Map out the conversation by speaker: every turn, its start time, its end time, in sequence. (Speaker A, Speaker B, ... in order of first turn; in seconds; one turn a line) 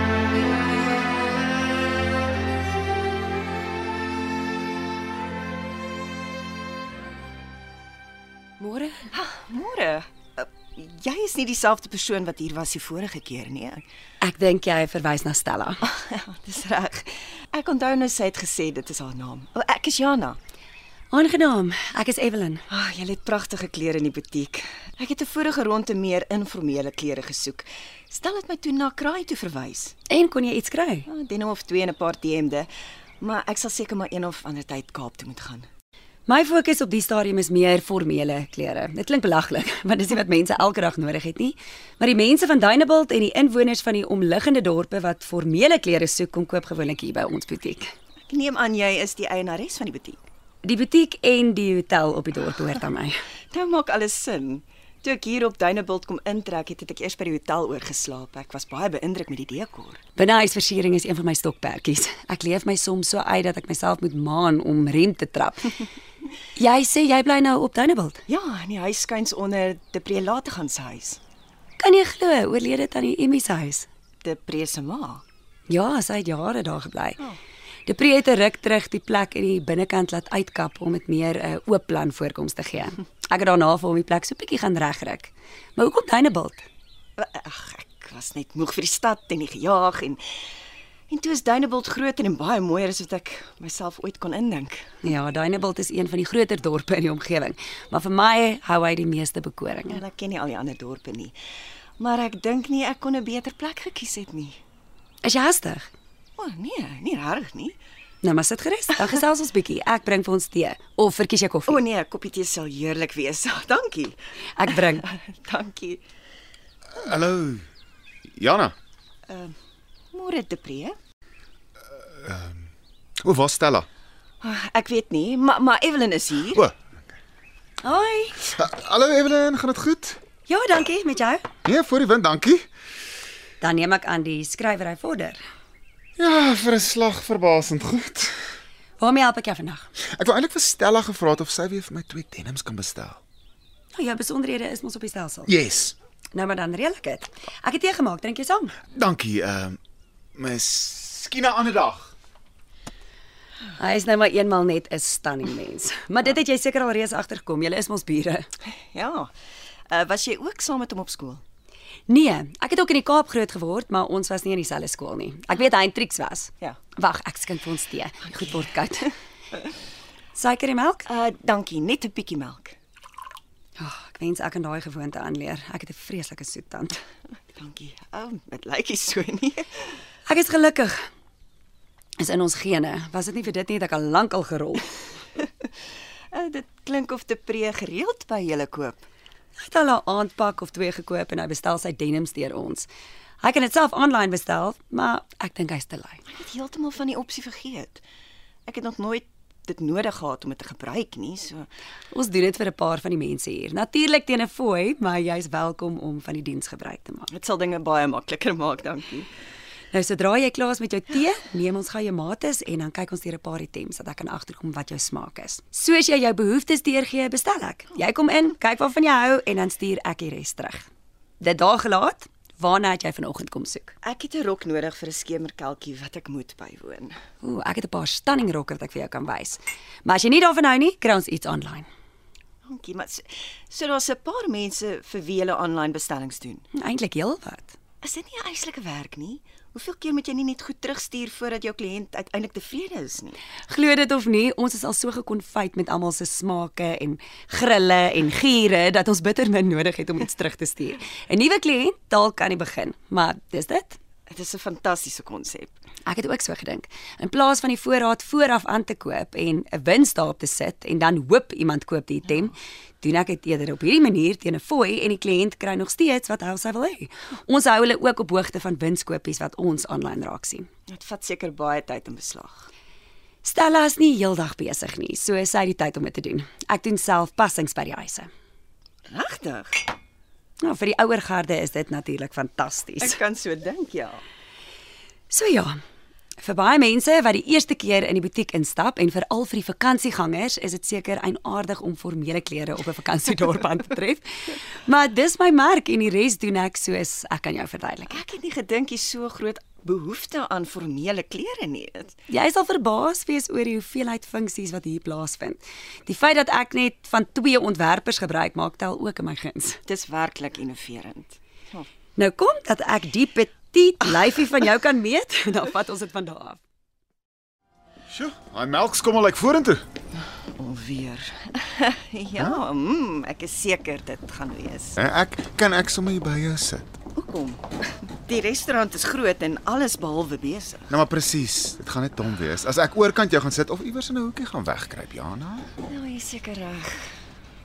Speaker A: 8.6-9.1
Speaker B: 9.1-13.8
Speaker A: 14.2-15.9
Speaker B: 15.8-20.4
Speaker A: 21.1-22.6
Speaker B: 22.7-29.9
Speaker A: 30.1-31.1
Speaker B: 31.1-32.7
Speaker B: 33.2-35.7
Speaker A: 36.3-47.9
Speaker B: 48.3-50.2
Speaker A: 50.6-53.1
Speaker B: 53.5-60.0
Speaker A: 60.2-65.9
Speaker A: 66.6-68.2
Speaker B: 68.3-71.2
Speaker A: 71.8-73.9
Speaker B: 74.2-75.2
Speaker A: 75.7-77.3
Speaker A: 77.9-86.6
Speaker B: 87.2-90.2
Speaker B: 91.1-94.9
Speaker A: 95.0-100.0
Speaker B: 99.9-101.3
Speaker B: 102.0-104.6
Speaker A: 105.2-105.9
Speaker B: 106.4-107.8
Speaker A: 108.2-111.8
Speaker B: 111.7-116.0
Speaker A: 114.6-115.0
Speaker C: 117.0-117.7
Speaker C: 118.3-118.8
Speaker B: 119.3-119.6
Speaker B: 120.1-121.0
Speaker C: 122.1-123.9
Speaker B: 124.4-126.6
Speaker A: 127.8-128.5
Speaker C: 128.4-130.2
Speaker A: 130.5-131.4
Speaker C: 131.7-132.7
Speaker A: 133.6-135.4
Speaker C: 136.2-138.4
Speaker A: 139.0-139.9
Speaker C: 140.1-143.2
Speaker A: 143.9-145.6
Speaker C: 145.5-145.9
Speaker A: 146.3-148.8
Speaker C: 148.9-149.8
Speaker C: 150.3-152.2
Speaker A: 153.8-158.5
Speaker B: 158.8-159.3
Speaker B: 159.9-161.4
Speaker A: 162.1-169.1
Speaker B: 168.3-168.6
Speaker A: 170.3-171.1
Speaker B: 171.1-172.8
Speaker A: 173.8-177.0
Speaker B: 177.5-179.9
Speaker A: 180.3-181.0
Speaker A: 182.2-184.9
Speaker B: 186.3-189.1
Speaker A: 189.6-192.9
Speaker A: 193.4-196.2
Speaker B: 196.3-198.0
Speaker B: 198.7-201.7
Speaker A: 202.1-207.3
Speaker B: 207.3-209.3
Speaker A: 209.9-220.9
Speaker A: 221.4-223.9
Speaker B: 224.0-227.2
Speaker A: 227.4-231.9
Speaker B: 232.7-236.7
Speaker A: 236.7-237.8
Speaker B: 238.0-243.4
Speaker A: 243.7-254.0
Speaker B: 254.3-255.7
Speaker A: 256.1-270.7
Speaker B: 270.9-272.7
Speaker A: 273.4-278.3
Speaker B: 279.1-279.9
Speaker A: 280.6-283.2
Speaker B: 283.0-284.2
Speaker A: 285.3-285.7
Speaker A: 286.4-298.2
Speaker B: 298.1-302.2
Speaker A: 302.3-309.8
Speaker B: 309.9-311.9
Speaker A: 312.2-316.6
Speaker C: 318.1-319.9
Speaker B: 320.6-325.0
Speaker C: 325.0-327.0
Speaker B: 327.1-330.9
Speaker C: 330.9-335.7
Speaker B: 335.8-337.1